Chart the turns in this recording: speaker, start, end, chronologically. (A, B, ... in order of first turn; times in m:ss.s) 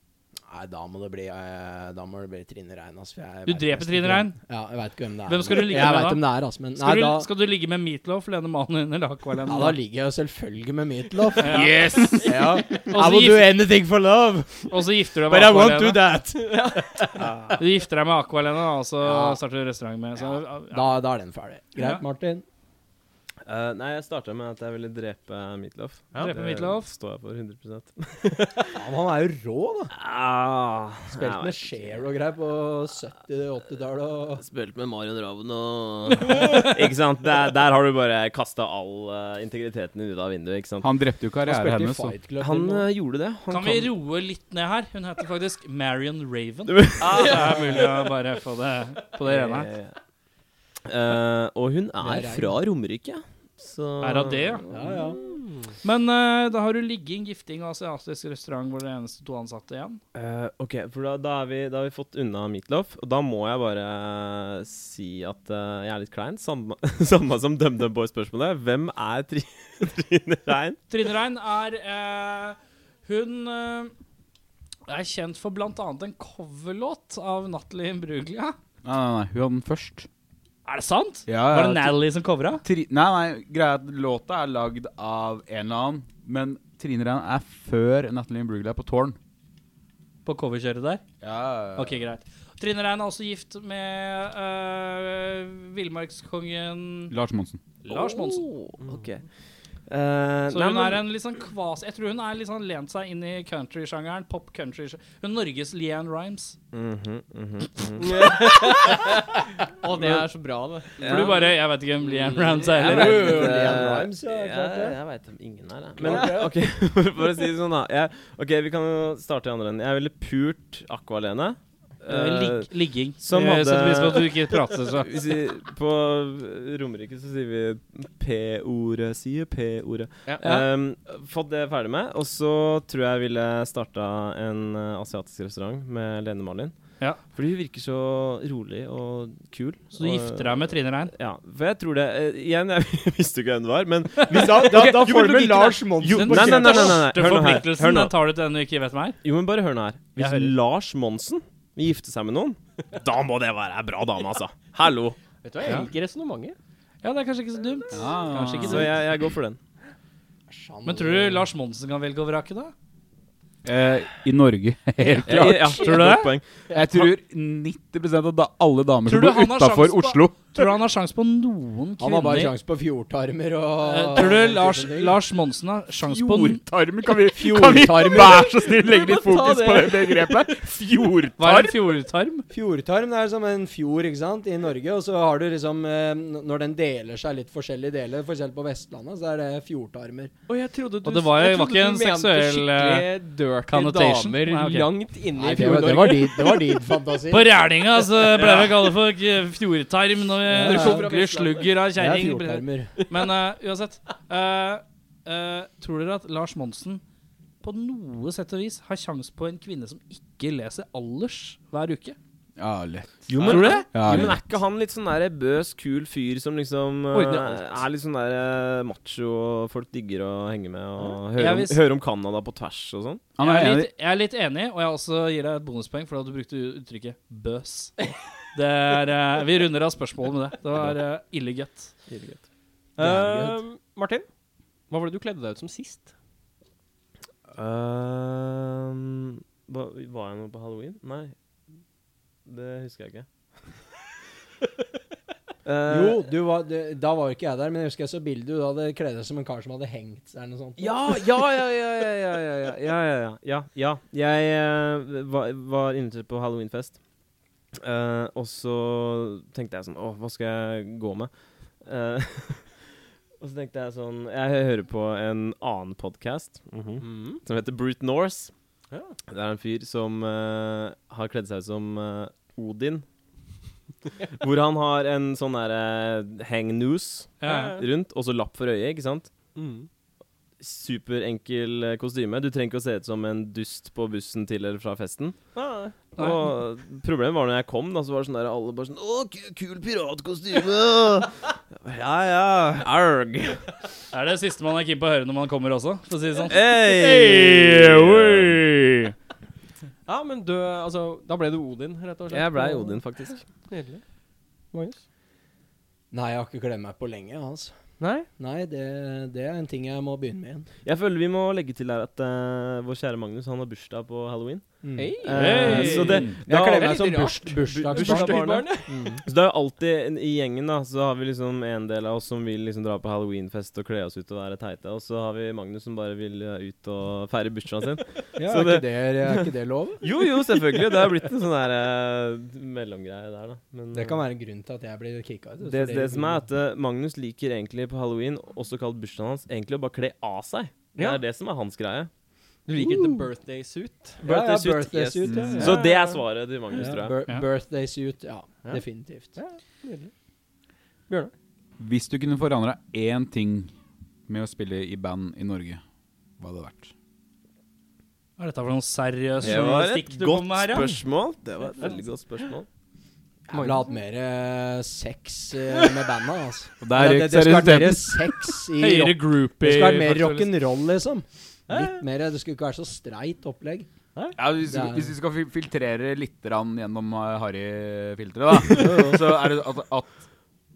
0:00.5-0:07.3 A
0:03.5-0:04.4 B
0:05.3-0:09.8 B
0:09.4-0:17.3 A
0:11.4-0:13.6 B
0:14.7-0:16.1 B
0:16.4-0:16.8 C
0:17.2-0:17.6 D
0:17.6-0:21.0 B
0:19.0-0:19.4 A
0:20.7-0:22.4 A
0:21.8-0:22.0 B
0:23.4-0:28.8 D
0:26.2-0:26.9 B
0:28.7-0:29.9 A
0:29.9-0:32.0 D
0:31.1-0:34.4 A
0:34.4-0:40.9 D
0:40.8-0:42.2 E
0:41.4-0:42.9 A
0:42.4-0:43.9 D
0:43.5-0:49.7 B
0:46.7-0:47.5 D
0:49.2-0:49.9 D
0:50.9-0:55.2 D
0:52.0-0:52.5 A
0:54.0-0:54.6 B
0:54.7-0:55.2 A
0:55.2-0:55.7 C
0:55.8-1:00.0 B
1:00.2-1:10.8 D
1:10.9-1:13.9 B
1:14.9-1:18.6 B
1:18.8-1:20.1 E
1:20.6-1:22.6 B
1:21.3-1:22.0 E
1:22.6-1:29.2 E
1:30.2-1:31.0 B
1:31.2-1:32.0 E
1:31.8-1:37.1 B
1:37.1-1:37.6 E
1:37.8-1:38.5 B
1:37.9-1:39.3 D
1:39.9-1:41.0 D
1:40.5-1:46.6 B
1:46.7-1:48.9 D
1:48.0-1:51.3 C
1:49.9-1:50.3 D
1:51.0-1:51.5 D
1:51.0-1:53.6 B
1:52.1-2:02.7 D
1:52.4-1:53.7 C
1:52.9-1:55.0 A
1:56.0-1:56.8 A
2:02.1-2:05.1 B
2:03.2-2:16.7 D
2:10.3-2:10.7 C
2:17.3-2:25.3 D
2:20.0-2:21.1 B
2:24.3-2:27.2 A
2:24.4-2:25.4 B
2:26.0-2:28.2 D
2:26.0-2:29.2 B
2:29.2-2:35.2 D
2:30.2-2:30.5 B
2:35.4-2:36.6 C
2:37.0-2:39.0 B
2:37.9-2:38.9 E
2:38.6-2:39.6 D
2:40.5-2:41.5 A
2:40.8-2:42.7 B
2:43.6-2:46.0 E
2:45.3-2:46.4 D
2:45.8-2:46.3 B
2:46.7-2:50.8 E
2:49.1-2:52.5 B
2:52.0-2:55.2 A
2:53.8-2:56.6 B
2:56.0-3:01.8 E
2:57.3-2:58.5 A
2:58.8-3:00.3 C
3:01.4-3:02.4 B
3:02.5-3:10.3 A
3:10.5-3:16.8 C
3:11.0-3:13.1 B
3:13.7-3:14.9 B
3:15.4-3:17.6 A
3:17.3-3:27.0 B
3:20.4-3:21.1 A
3:20.6-3:21.8 C
3:21.9-3:22.9 A
3:23.0-3:23.3 C
3:27.6-3:32.2 B
3:32.6-3:34.4 E
3:33.3-3:43.3 D
3:33.4-3:34.3 B
3:37.1-3:37.8 C
3:41.4-3:41.8 B
3:43.4-3:43.9 E
3:43.4-3:52.0 B
3:52.1-3:52.4 D
3:53.0-3:54.3 C
3:53.0-3:53.6 A
3:54.9-3:56.1 C
3:57.5-4:01.3 D
4:02.5-4:03.3 D
4:05.6-4:06.3 D
4:05.9-4:11.0 A
4:10.8-4:17.0 D
4:17.8-4:22.8 D
4:23.4-4:28.5 D
4:27.0-4:27.4 C
4:28.9-4:29.2 C
4:29.3-4:33.0 D
4:34.4-4:39.3 D
4:37.4-4:37.8 B
4:37.4-4:37.8 C
4:39.6-4:39.9 C
4:40.6-4:45.4 D
4:45.6-4:46.0 C
4:46.2-4:53.7 D
4:46.2-4:46.5 B
4:54.1-4:59.1 B
4:56.5-4:58.6 D
5:00.1-5:04.0 C
5:02.3-5:03.4 D
5:04.7-5:05.0 C
5:06.1-5:07.8 A
5:08.0-5:08.3 C
5:08.3-5:10.7 A
5:10.8-5:29.5 D
5:14.8-5:19.2 A
5:15.0-5:18.9 C
5:15.3-5:16.4 B
5:28.4-5:30.0 A
5:30.0-5:34.2 D
5:33.9-5:36.5 A
5:35.6-5:42.1 D
5:41.0-5:41.2 C
5:42.7-5:44.2 C
5:42.8-5:43.2 A
5:44.2-5:45.9 A
5:44.2-5:47.2 D
5:45.4-5:46.9 C
5:46.7-5:49.3 A
5:48.6-5:50.1 C
5:51.8-5:53.7 E
5:54.3-5:55.8 E
5:56.4-5:56.9 E
5:58.4-6:00.9 B
5:59.4-6:02.7 D
6:01.8-6:02.5 C
6:03.5-6:03.9 C
6:03.5-6:13.9 A
6:06.8-6:08.3 E
6:08.8-6:10.5 B
6:11.7-6:12.0 C
6:14.4-6:20.3 E
6:14.6-6:15.1 A
6:18.8-6:19.2 A